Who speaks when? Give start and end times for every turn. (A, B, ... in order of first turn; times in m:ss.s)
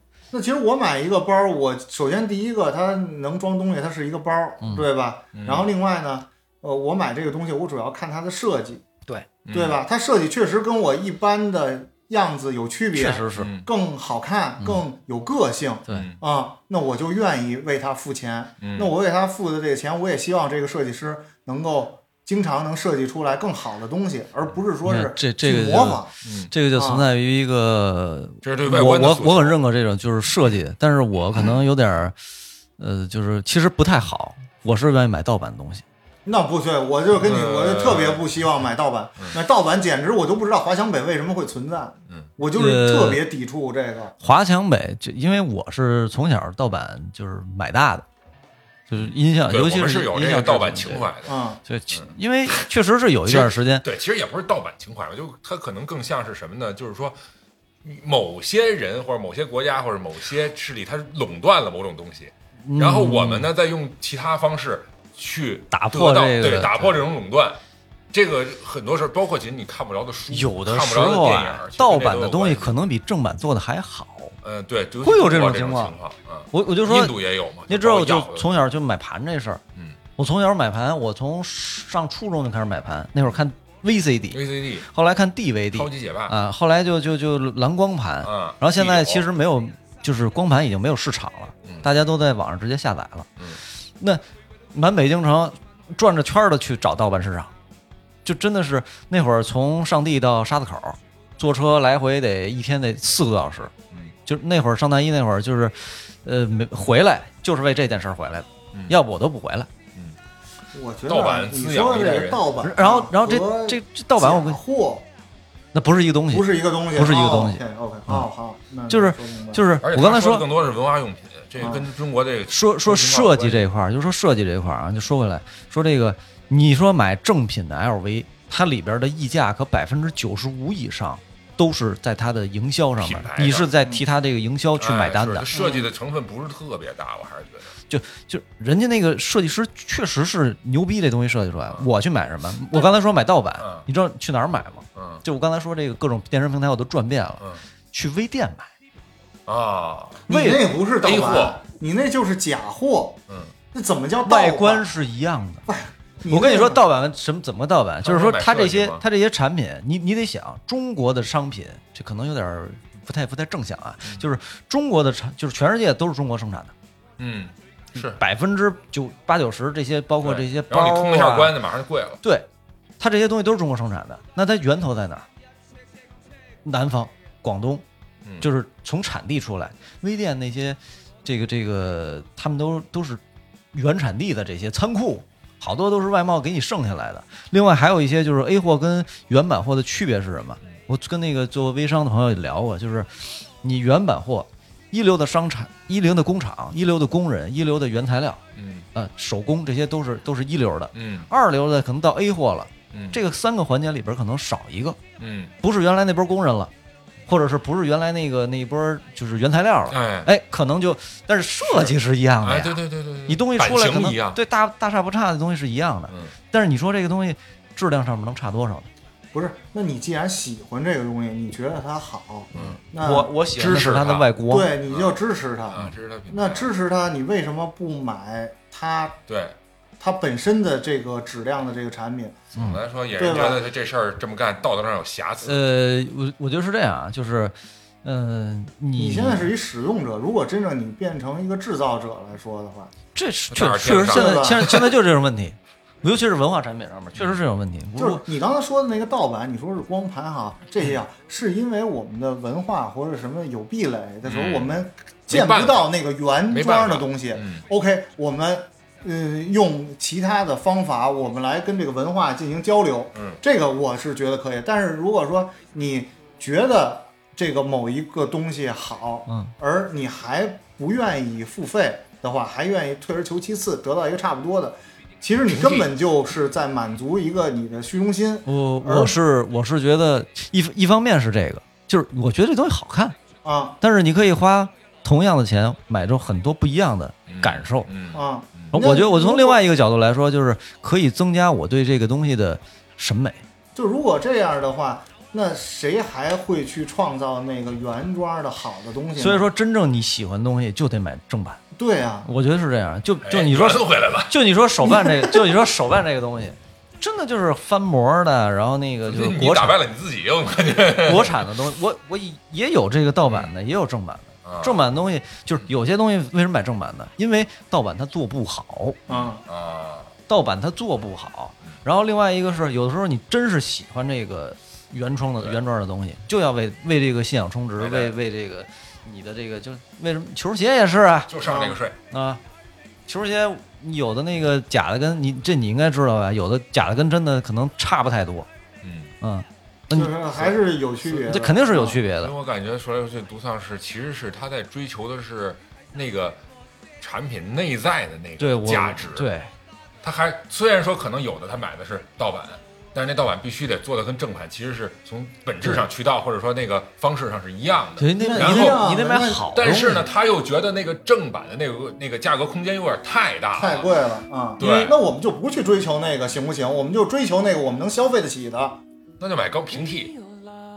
0:00.3-0:08.8 A
0:04.6-0:04.9 B
0:05.3-0:05.7 C
0:09.4-0:09.8 C
0:09.5-0:26.1 A
0:12.9-0:13.5 B
0:13.4-0:13.7 C
0:15.9-0:16.2 C
0:18.6-0:18.9 C
0:24.8-0:32.2 B
0:26.2-0:26.5 C
0:26.7-0:27.0 A
0:28.4-0:29.6 C
0:32.8-0:35.8 B
0:36.2-0:44.1 A
0:37.2-0:38.2 C
0:42.5-0:43.2 B
0:44.2-0:48.0 B
0:48.9-0:51.1 B
0:49.0-0:51.4 C
0:51.2-0:51.6 A
0:51.6-0:53.8 B
0:51.9-0:52.7 C
0:53.2-0:57.2 C
0:57.8-1:07.6 C
1:02.6-1:03.5 B
1:05.7-1:07.0 B
1:08.1-1:12.8 C
1:10.3-1:14.4 B
1:14.4-1:18.5 C
1:15.0-1:15.9 B
1:16.5-1:19.6 B
1:20.2-1:33.4 B
1:24.3-1:24.9 C
1:25.7-1:26.3 C
1:28.2-1:29.3 C
1:34.0-1:37.5 B
1:38.2-1:43.7 B
1:44.2-1:49.7 B
1:50.7-1:55.0 A
1:51.1-1:52.5 C
1:52.6-1:54.6 B
1:55.7-1:58.3 B
1:56.3-1:59.6 A
1:58.9-2:00.5 B
1:59.8-2:03.7 C
2:01.6-2:01.8 A
2:02.5-2:15.5 B
2:13.0-2:13.7 C
2:14.8-2:17.7 C
2:15.5-2:15.9 A
2:17.9-2:28.7 B
2:23.6-2:23.8 C
2:24.9-2:25.2 C
2:29.5-2:30.2 C
2:30.3-2:33.2 A
2:30.3-2:30.6 B
2:31.0-2:31.6 C
2:33.3-2:33.5 C
2:33.7-2:34.9 A
2:34.2-2:35.6 B
2:35.6-2:36.8 A
2:36.3-2:46.7 B
2:38.0-2:39.0 C
2:47.2-2:48.2 C
2:48.0-2:51.6 B
2:50.2-2:52.2 C
2:53.0-2:55.3 B
2:56.6-2:57.8 B
2:58.4-3:03.2 B
3:03.7-3:18.4 B
3:18.5-3:18.9 C
3:18.9-3:25.0 B
3:20.9-3:21.3 C
3:22.9-3:23.2 C
3:25.2-3:25.5 C
3:25.6-3:26.7 B
3:27.3-3:38.9 B
3:29.9-3:30.3 C
3:31.7-3:34.4 C
3:36.1-3:36.3 C
3:39.3-3:43.3 A
3:42.5-3:42.8 C
3:42.6-3:44.7 B
3:43.5-3:44.3 C
3:44.5-3:49.2 A
3:44.9-3:45.2 C
3:45.7-3:46.7 C
3:49.3-3:49.6 C
3:50.0-3:52.4 A
3:52.5-3:52.8 B
3:52.6-3:55.6 C
3:53.2-3:53.6 A
3:55.4-3:59.5 B
3:59.0-4:02.9 A
4:03.1-4:08.2 B
4:03.5-4:04.9 C
4:04.0-4:04.7 A
4:08.0-4:39.2 A
4:14.2-4:15.9 C
4:16.5-4:17.6 C
4:23.1-4:23.4 C
4:29.3-4:29.5 B
4:35.5-4:35.9 C
4:38.4-4:43.2 B
4:43.4-4:43.8 A
4:43.8-4:47.9 B
4:47.3-4:48.8 C
4:48.1-4:49.6 A
4:48.7-4:53.4 B
4:53.7-4:59.5 A
4:59.2-5:01.6 B
5:01.7-5:02.3 A
5:02.2-5:09.8 B
5:03.2-5:04.3 C
5:09.0-5:11.5 C
5:11.0-5:19.0 B
5:13.3-5:13.5 C
5:14.4-5:14.8 C
5:19.1-5:19.4 A
5:19.1-5:20.1 C
5:20.3-5:31.3 B
5:27.8-5:28.1 C
5:31.3-5:32.0 C
5:31.4-5:31.8 A
5:32.1-5:32.4 B
5:33.1-5:38.5 B
5:38.8-5:39.1 C
5:39.2-5:40.2 B
5:39.9-5:42.0 A
5:41.1-5:42.3 B
5:42.2-5:46.4 C
5:47.0-5:49.3 C
5:48.4-5:49.5 B
5:50.0-5:58.8 C
5:58.0-6:00.0 B
5:58.2-5:59.5 A
5:59.5-6:03.9 C
6:03.5-6:08.8 A
6:04.6-6:04.9 C
6:04.6-6:04.9 B
6:09.2-6:10.2 C